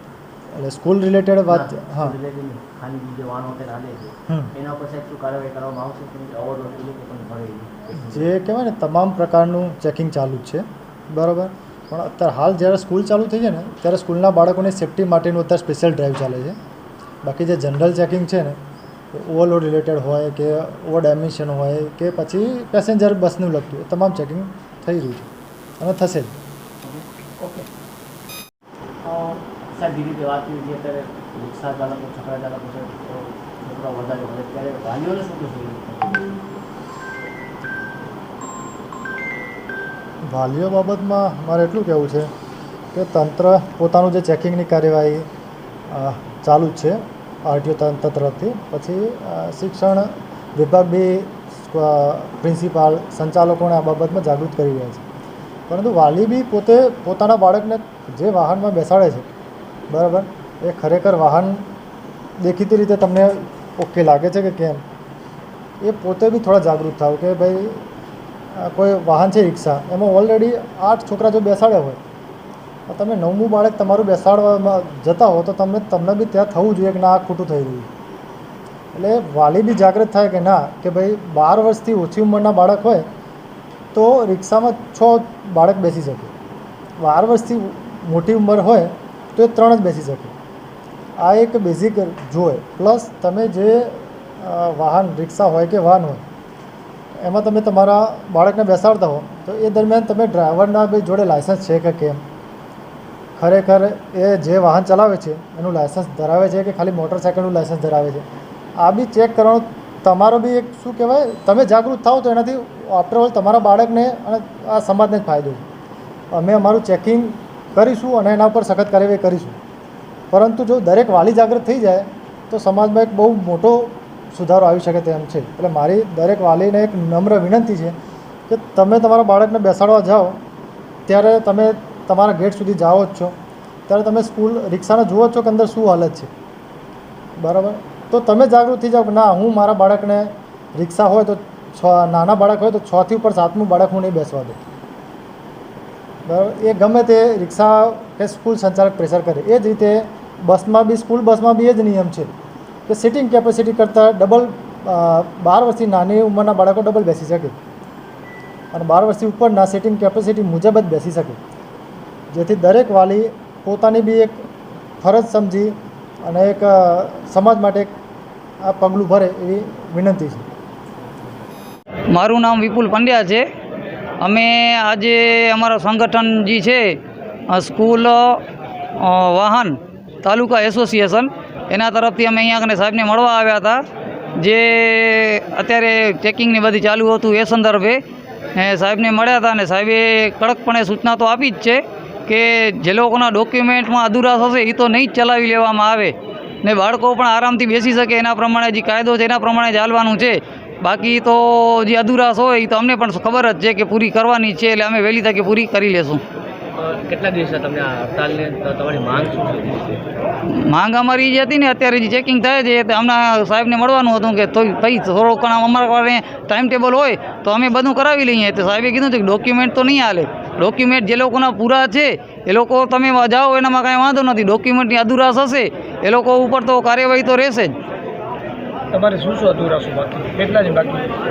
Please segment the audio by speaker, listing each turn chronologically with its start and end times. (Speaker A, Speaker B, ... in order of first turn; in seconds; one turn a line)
Speaker A: 0.6-2.1
Speaker B: 1.5-8.3
Speaker A: 8.0-16.6
Speaker A: 17.2-18.6
Speaker A: 19.1-25.3
Speaker A: 25.8-26.3
Speaker B: 26.8-27.6
Speaker B: 29.0-36.4
Speaker A: 40.3-42.3
Speaker A: 42.9-45.3
Speaker A: 45.9-55.0
Speaker A: 55.7-59.3
Speaker A: 59.9-61.7
Speaker A: 62.4-64.8
Speaker A: 65.8-67.9
Speaker A: 68.5-72.0
Speaker A: 72.9-77.9
Speaker A: 78.9-83.1
Speaker A: 83.9-86.3
Speaker A: 87.0-90.3
Speaker A: 91.2-96.2
Speaker A: 97.2-102.2
Speaker A: 103.4-108.2
Speaker A: 108.8-115.7
Speaker A: 116.3-119.6
Speaker A: 120.3-128.0
Speaker A: 128.5-130.4
Speaker A: 131.1-133.4
Speaker A: 133.9-136.3
Speaker A: 137.4-144.6
Speaker A: 146.3-152.3
Speaker A: 152.9-157.6
Speaker A: 158.7-161.4
Speaker A: 162.3-164.4
Speaker A: 165.0-167.9
Speaker A: 168.6-170.5
Speaker C: 172.1-173.4
Speaker C: 174.2-176.9
Speaker C: 177.5-178.4
Speaker C: 179.0-183.8
Speaker C: 184.4-188.0
Speaker C: 188.6-206.2
Speaker B: 206.8-210.0
Speaker C: 210.7-227.7
Speaker D: 228.9-231.1